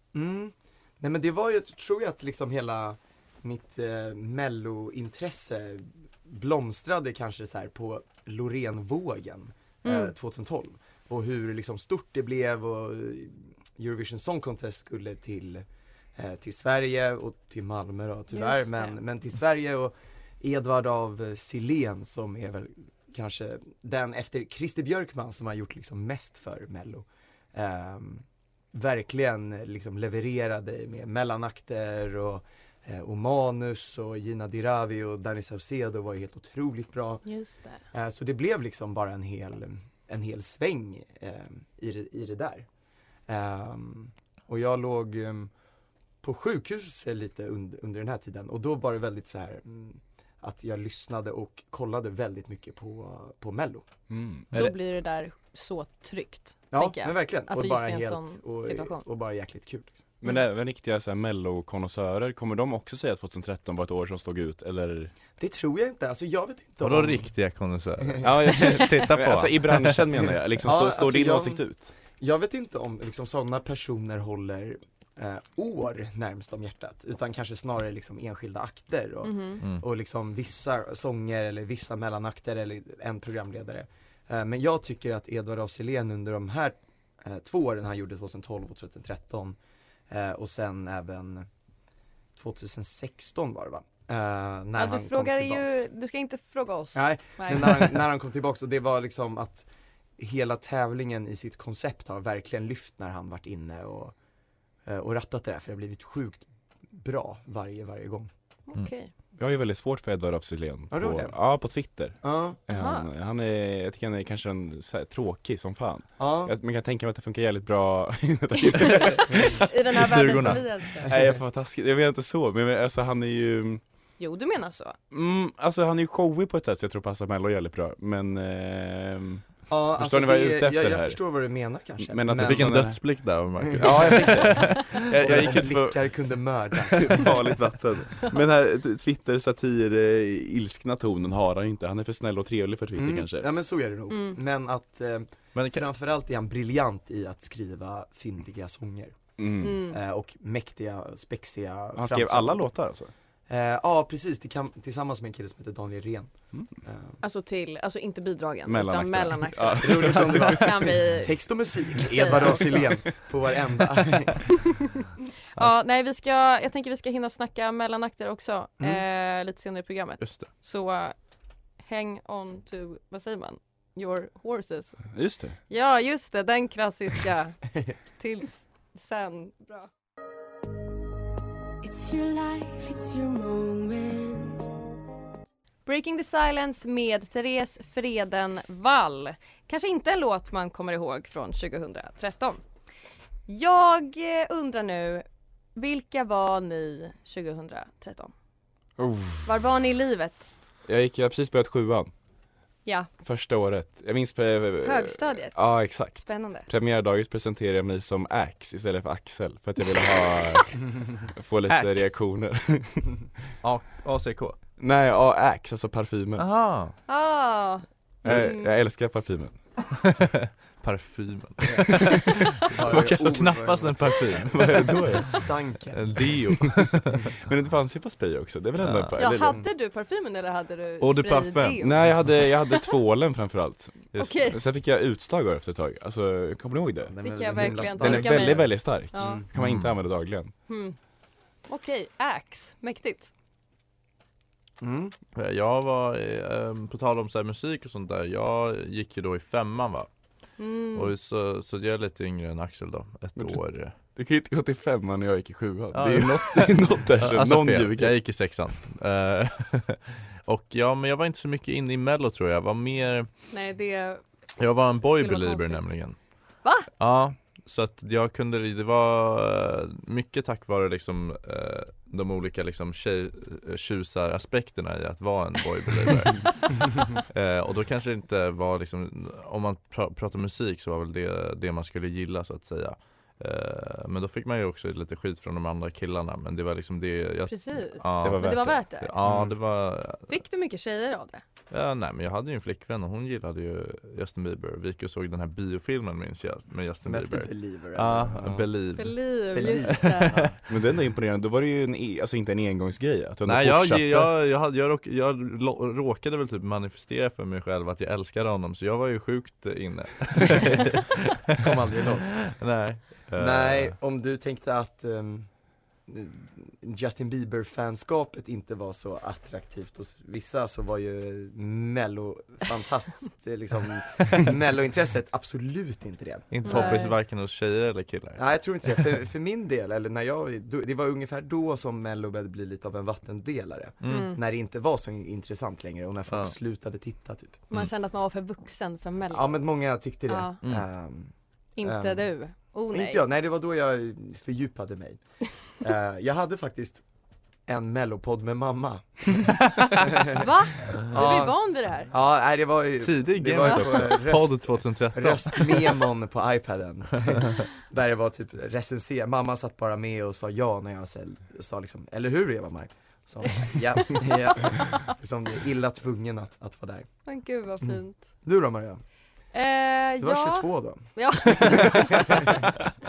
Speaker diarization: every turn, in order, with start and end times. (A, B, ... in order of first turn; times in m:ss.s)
0:00.1-0:15.6 A
0:09.8-0:10.1 B
0:16.2-0:37.2 A
0:18.3-0:19.0 B
0:37.2-0:37.8 B
0:37.9-0:42.7 A
0:43.3-0:45.5 A
0:46.2-0:53.8 A
0:54.1-0:54.5 C
0:54.5-0:59.0 B
0:56.7-1:00.1 A
1:00.2-1:05.1 C
1:05.4-1:07.3 A
1:06.8-1:10.1 D
1:08.2-1:11.9 C
1:10.6-1:29.6 A
1:19.2-1:19.6 B
1:30.1-1:31.5 A
1:32.3-1:35.8 A
1:34.8-1:37.8 B
1:36.9-1:39.7 A
1:40.2-1:44.1 A
1:44.8-1:48.3 A
1:48.7-1:49.1 B
1:49.4-1:59.6 C
1:50.9-1:51.3 A
1:52.2-1:52.6 A
1:52.7-1:53.1 B
1:56.2-1:56.5 A
1:58.6-2:01.1 B
1:59.9-2:00.6 D
2:00.3-2:03.8 C
2:04.2-2:05.0 B
2:05.1-2:09.4 C
2:09.7-2:12.9 A
2:10.0-2:11.2 C
2:12.0-2:13.0 C
2:12.4-2:15.5 D
2:13.6-2:17.6 A
2:13.7-2:16.1 C
2:16.7-2:23.5 C
2:23.0-2:29.2 A
2:24.1-2:24.4 B
2:25.5-2:25.9 D
2:29.4-2:29.8 C
2:29.6-2:30.0 B
2:29.8-2:32.6 A
2:32.0-2:33.1 C
2:33.5-2:37.2 A
2:37.2-2:42.9 B
2:38.6-2:41.0 C
2:39.8-2:44.7 A
2:42.2-2:43.0 C
2:45.5-2:51.2 B
2:50.2-2:50.5 D
2:51.8-2:55.1 B
2:55.1-2:55.6 C
2:55.7-2:57.6 B
2:58.2-2:59.9 B
3:01.8-3:04.6 E
3:05.8-3:12.6 B
3:13.5-3:15.2 B
3:15.8-3:18.3 B
3:19.0-3:19.5 C
3:19.4-3:20.5 B
3:20.8-3:22.1 C
3:23.2-3:33.1 C
3:24.8-3:26.7 B
3:33.6-3:34.6 D
3:34.8-3:36.4 C
3:36.4-3:36.9 D
3:37.1-3:38.7 B
3:38.2-3:39.6 C
3:40.0-3:45.0 D
3:42.6-3:46.4 A
3:44.4-3:45.4 C
3:45.9-3:47.2 D
3:47.4-3:49.6 C
3:48.8-3:49.2 D
3:49.2-3:52.9 B
3:51.0-3:51.8 D
3:51.8-4:00.5 C
3:54.2-3:54.6 B
3:57.0-3:59.5 A
3:57.2-3:59.4 B
3:59.5-3:59.9 D
4:00.7-4:01.0 B
4:01.7-4:03.3 B
4:04.8-4:05.2 A
4:05.3-4:10.1 D
4:10.6-4:11.1 B
4:10.9-4:13.9 D
4:13.4-4:18.1 C
4:15.9-4:23.3 D
4:23.5-4:24.2 B
4:24.6-4:26.2 D
4:25.0-4:25.8 B
4:27.0-4:50.3 D
4:47.5-4:49.1 B
4:48.2-4:49.6 C
4:50.3-4:51.4 B
4:51.7-4:59.2 D
4:57.0-4:58.6 A
4:59.0-5:00.4 B
4:59.5-5:00.6 A
4:59.9-5:00.5 D
5:00.7-5:04.3 C
5:03.4-5:11.2 D
5:11.6-5:12.5 A
5:12.5-5:13.9 D
5:13.4-5:15.5 A
5:16.0-5:27.0 A
5:26.5-5:28.4 D
5:26.6-5:27.2 B
5:28.4-5:37.6 A
5:34.0-5:34.3 D
5:34.0-5:34.4 B
5:37.7-5:39.6 B
5:39.3-5:41.3 A
5:40.3-5:40.6 B
5:41.8-5:43.2 B
5:41.8-5:42.3 A
5:42.9-5:47.0 A
5:47.7-6:07.1 A
5:50.4-5:52.1 B
5:53.0-5:56.0 D
6:03.7-6:05.1 B
6:07.2-6:08.3 B
6:08.4-6:09.0 A
6:09.5-6:12.7 B
6:10.2-6:12.7 A